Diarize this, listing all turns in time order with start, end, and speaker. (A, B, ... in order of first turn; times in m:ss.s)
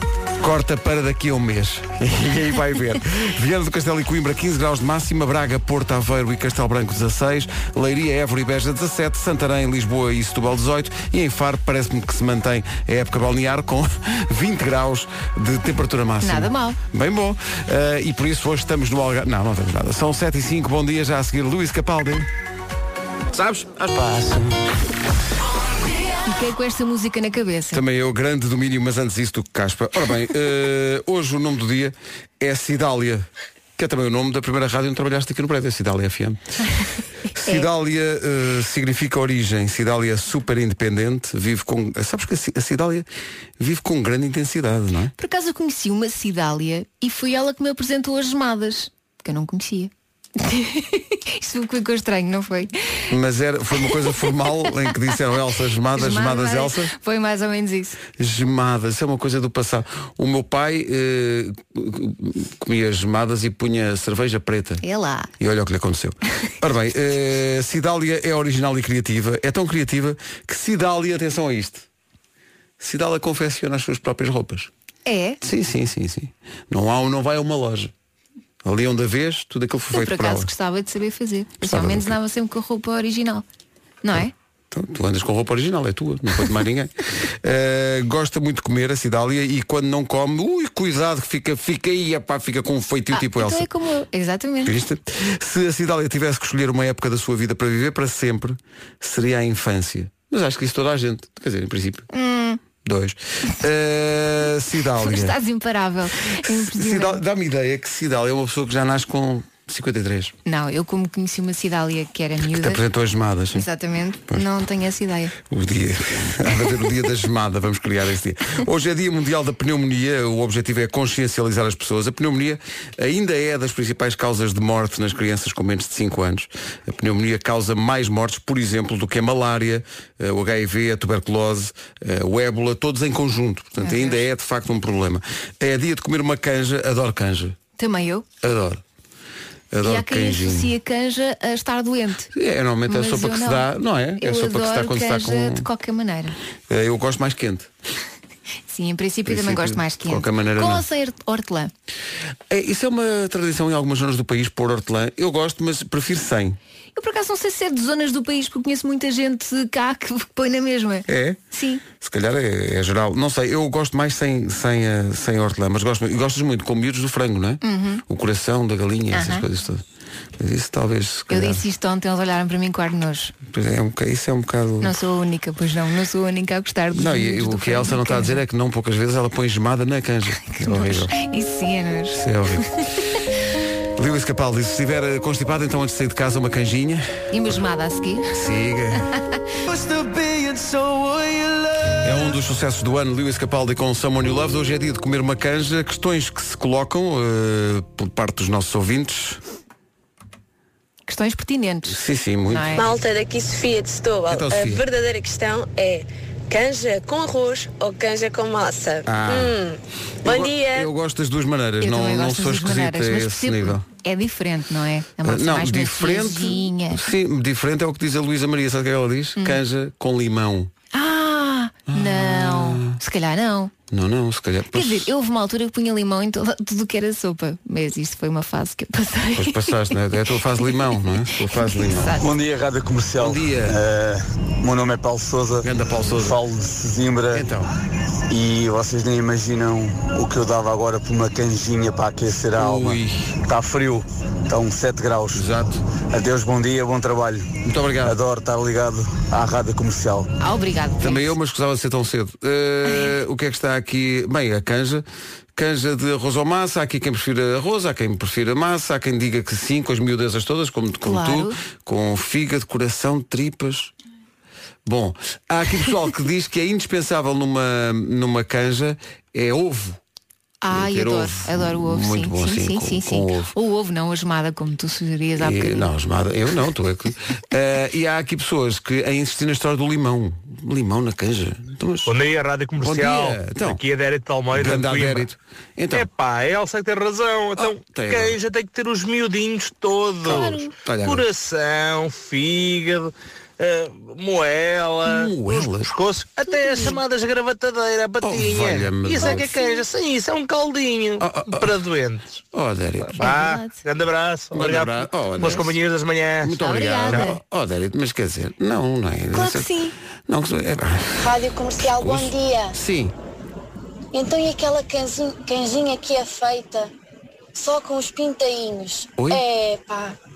0:00.4-0:22.3 A
0:16.2-0:16.8 B
0:23.4-0:24.3 C
0:26.2-0:27.8 B
0:27.7-0:33.3 A
0:33.8-0:36.4 A
0:37.4-0:43.1 A
0:43.6-0:45.1 A
0:45.2-0:52.7 B
0:53.1-0:56.9 A
0:54.0-0:54.3 B
0:56.0-0:58.0 B
0:58.2-1:04.8 A
1:04.8-1:05.3 B
1:05.4-1:11.9 A
1:12.8-1:14.7 A
1:15.1-1:15.4 B
1:15.4-1:17.9 A
1:18.6-1:20.5 A
1:20.0-1:23.4 B
1:21.6-1:22.2 A
1:24.0-1:24.3 B
1:24.7-1:33.7 A
1:33.1-1:34.8 B
1:34.6-1:42.0 A
1:42.1-1:42.6 B
1:42.8-1:45.4 A
1:45.0-1:47.2 B
1:46.4-1:50.3 A
1:50.5-1:52.8 B
1:52.4-1:53.7 A
1:53.6-1:55.3 B
1:55.5-2:17.6 A
2:13.8-2:14.2 B
2:17.8-2:18.3 B
2:18.4-2:18.8 A
2:19.7-2:20.7 A
2:19.8-2:22.3 B
2:22.3-2:25.7 A
2:22.9-2:26.4 B
2:26.7-2:27.7 A
2:28.7-2:31.7 B
2:29.3-2:30.8 A
2:32.5-2:36.6 A
2:37.0-2:41.8 B
2:41.1-2:49.8 A
2:47.6-2:48.0 B
2:49.1-2:49.4 B
2:50.4-2:51.6 A
2:51.3-2:53.3 B
2:53.5-2:55.0 A
2:54.8-2:58.4 B
2:56.9-3:01.1 A
3:00.4-3:02.2 B
3:02.2-3:02.6 A
3:04.0-3:07.1 A
3:07.3-3:08.3 B
3:08.3-3:09.0 A
3:09.7-3:11.9 C
3:12.0-3:19.4 A
3:21.1-3:22.9 B
3:21.9-3:22.8 A
3:22.8-3:29.0 D
3:24.3-3:24.8 A
3:29.1-3:29.6 A
3:30.2-3:33.8 A
3:30.4-3:30.8 D
3:31.8-3:37.0 B
3:35.2-3:40.7 A
3:40.9-3:43.7 B
3:41.9-3:43.0 A
3:43.9-3:45.1 A
3:44.7-3:49.8 B
3:49.3-3:52.2 A
3:51.5-3:52.3 B
3:52.2-3:57.5 E
3:53.2-3:53.8 A
3:55.6-3:56.4 A
3:57.3-3:57.7 A
3:58.3-4:05.5 E
4:02.6-4:03.3 A
4:05.3-4:05.8 A
4:06.1-4:07.5 E
4:07.6-4:08.2 A
4:08.0-4:10.3 E
4:10.4-4:11.3 B
4:11.0-4:15.0 A
4:15.6-4:23.9 A
4:21.0-4:21.5 B
4:24.8-4:30.0 A
4:30.6-4:35.9 B
4:30.7-4:33.5 A
4:35.4-4:42.1 A
4:42.1-4:45.3 F
4:42.8-4:43.8 A
4:44.5-4:46.1 A
4:45.9-5:02.4 F
4:47.7-4:48.4 A
4:50.3-4:50.7 B
4:50.4-4:51.2 A
4:55.1-4:55.9 A
4:56.5-4:57.0 B
4:58.2-4:59.5 A
4:59.2-4:59.6 B
5:01.2-5:01.7 A
5:02.5-5:03.2 A
5:03.1-5:06.6 F
5:03.2-5:03.8 B
5:04.5-5:05.8 A
5:06.4-5:09.7 A
5:06.6-5:07.4 B
5:09.3-5:09.9 B
5:10.3-5:11.2 A
5:11.2-5:12.8 G
5:11.8-5:13.1 A
5:14.1-5:16.9 G
5:17.5-5:20.2 G
5:19.2-5:19.4 A